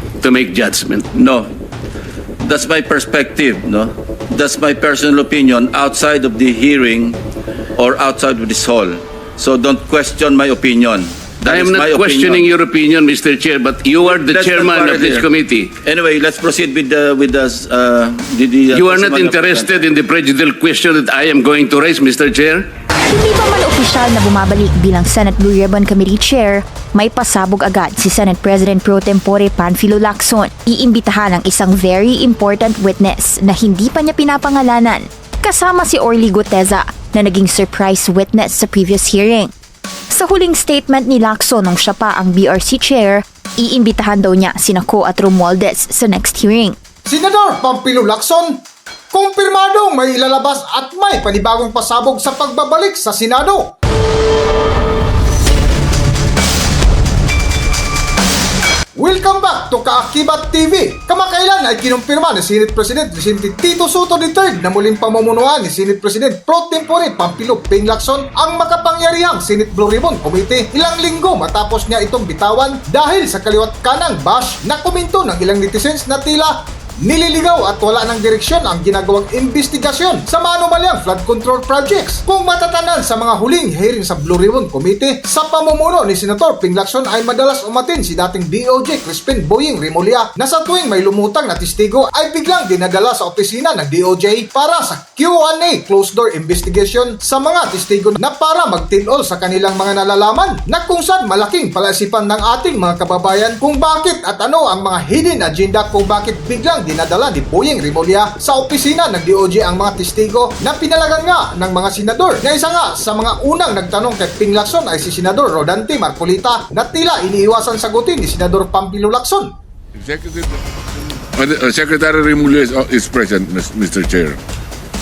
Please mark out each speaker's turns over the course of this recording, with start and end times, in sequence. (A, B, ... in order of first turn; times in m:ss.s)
0:00.2-0:01.0 A
0:01.1-0:01.5 B
0:02.4-0:07.2 B
0:07.8-0:12.5 B
0:11.4-0:15.7 A
0:14.0-0:15.3 B
0:15.8-0:19.8 B
0:18.7-0:22.7 A
0:23.1-0:39.5 C
0:40.1-0:46.8 C
0:47.0-0:48.6 D
0:49.1-0:53.6 D
0:59.0-1:59.5 D
2:00.0-2:00.5 E
2:01.4-2:04.4 E